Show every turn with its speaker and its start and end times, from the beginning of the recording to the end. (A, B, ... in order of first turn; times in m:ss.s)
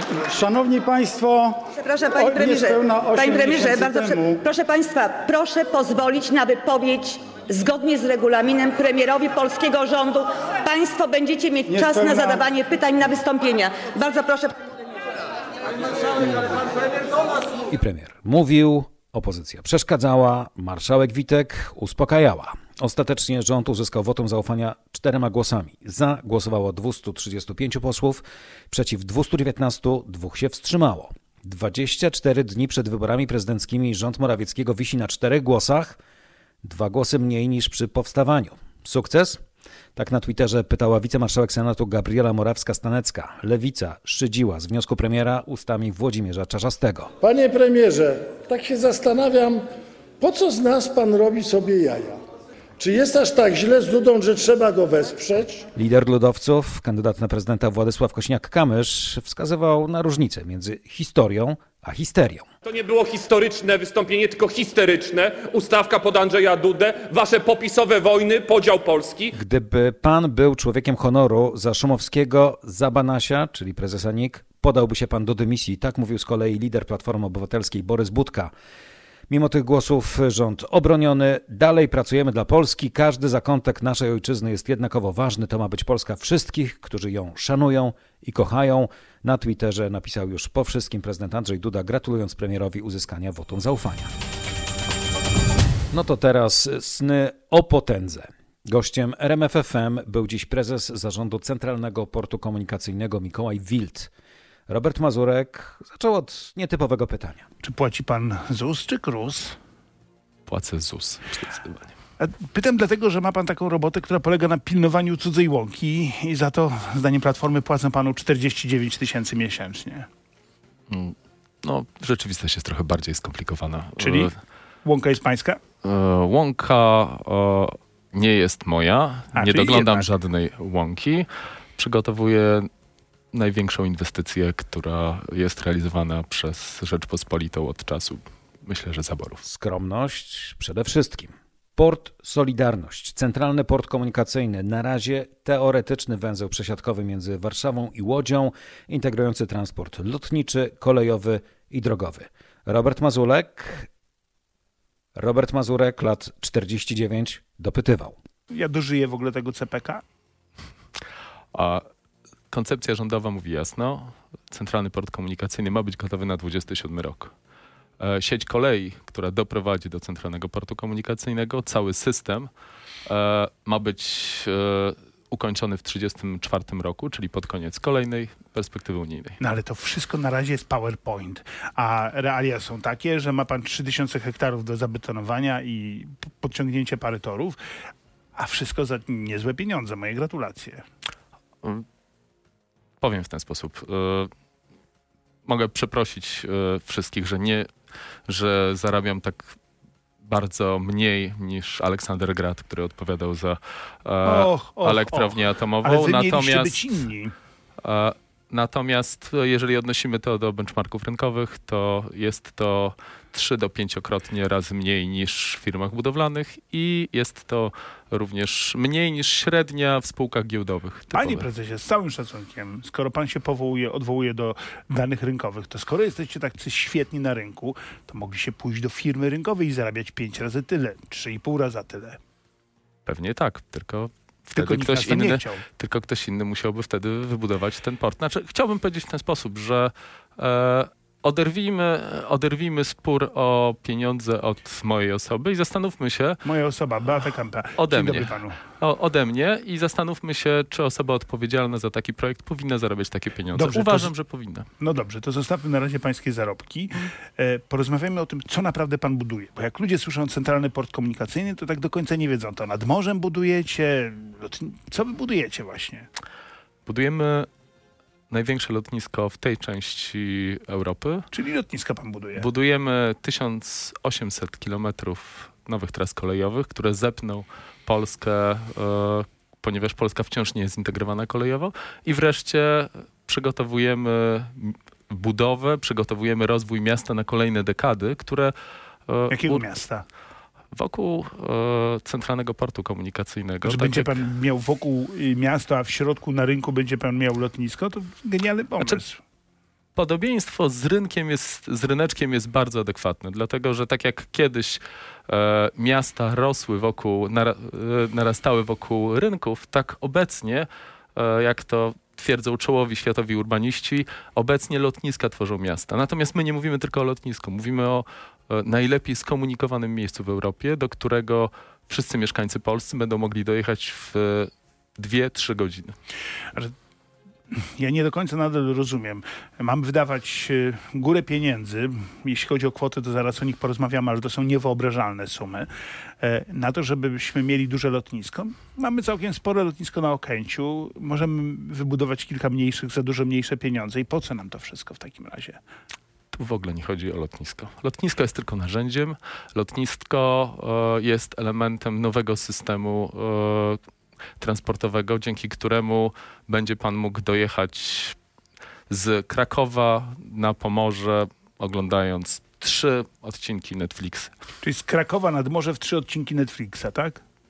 0:00.2-0:01.6 A
0:01.8-0:14.6 B
0:02.1-0:04.4 A
0:11.7-0:12.4 A
0:17.7-0:36.0 C
0:36.6-0:39.4 C
0:40.0-0:47.1 C
0:47.2-0:49.6 D
0:50.2-0:52.1 D
0:52.8-0:55.6 D
0:55.7-1:02.4 C
1:02.6-1:09.3 E
1:09.3-1:18.5 C
1:19.3-1:34.1 C
1:35.9-1:44.1 C
1:44.7-1:47.4 C
1:47.6-1:49.6 F
1:50.5-1:51.9 G
1:52.2-2:00.1 F
2:00.9-2:04.4 G
2:04.0-2:05.6 F
2:05.8-2:12.7 G
2:09.3-2:10.1 F
2:13.3-2:19.4 G
2:19.4-2:33.9 C
2:35.1-2:38.2 C
2:38.5-2:40.0 F
2:41.5-2:41.8 G
2:42.5-2:47.3 G
2:48.0-2:52.5 G
2:53.0-2:59.4 G
2:59.4-3:07.6 F
3:08.4-3:10.8 F
3:13.0-3:14.3 G
3:15.4-3:17.7 G
3:18.3-3:19.6 G
3:20.2-3:26.8 G
3:24.2-3:27.3 F
3:27.8-3:41.5 G
3:41.1-3:52.2 F
3:53.1-4:06.4 G
3:54.5-3:55.6 F
4:06.4-4:08.6 F
4:07.8-4:14.7 G
4:13.5-4:14.1 F
4:14.8-4:26.1 F
4:26.8-4:27.5 G
4:28.3-4:31.3 G
4:31.3-4:32.5 F
4:32.4-4:48.5 G
4:49.1-4:49.6 G
4:49.3-4:50.0 F
4:50.7-4:54.2 G
4:53.6-4:59.2 F
5:00.0-5:25.9 G
5:27.5-5:35.7 F
5:36.2-5:45.6 F
5:46.3-5:53.8 G
5:54.4-5:58.2 G
5:58.9-6:04.3 G
6:04.6-6:07.2 F